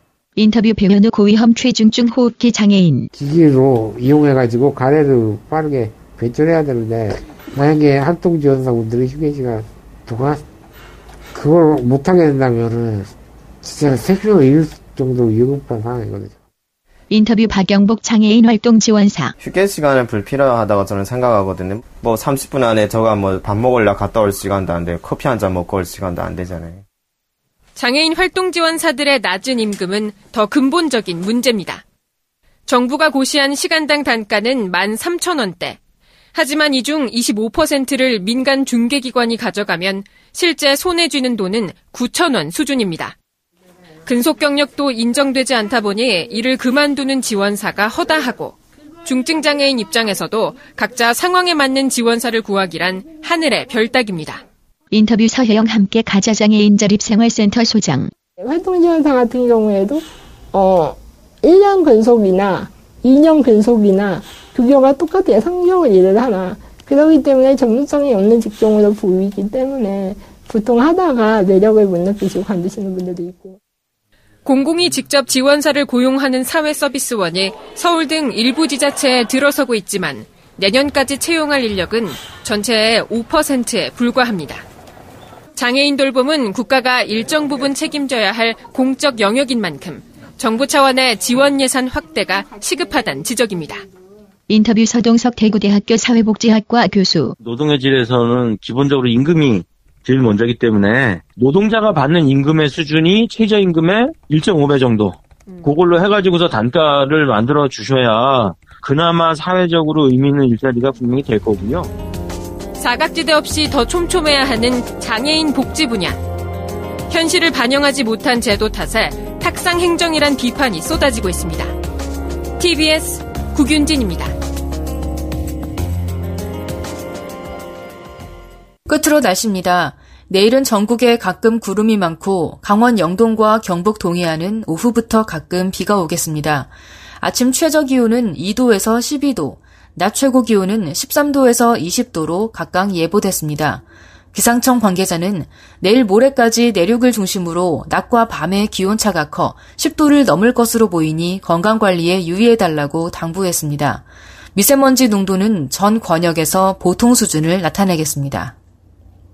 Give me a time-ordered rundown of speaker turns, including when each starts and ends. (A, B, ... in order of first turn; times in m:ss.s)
0:00.4-0:03.1 A
0:03.1-0:10.4 B
0:11.3-0:13.1 B
0:13.6-0:16.4 B
0:17.1-0:19.3 A
0:19.4-0:26.8 C
0:27.8-0:31.8 D
0:32.7-0:35.8 D
0:36.3-0:43.2 D
0:44.1-0:54.4 D
0:54.9-0:58.1 A
0:58.4-1:13.6 E
1:14.4-1:24.6 D
1:25.6-1:33.8 D
1:34.5-1:37.3 A
1:37.4-1:51.9 F
1:52.8-1:56.2 D
1:57.1-2:01.7 D
2:02.6-2:04.4 D
2:08.9-2:34.0 G
2:34.6-2:38.6 G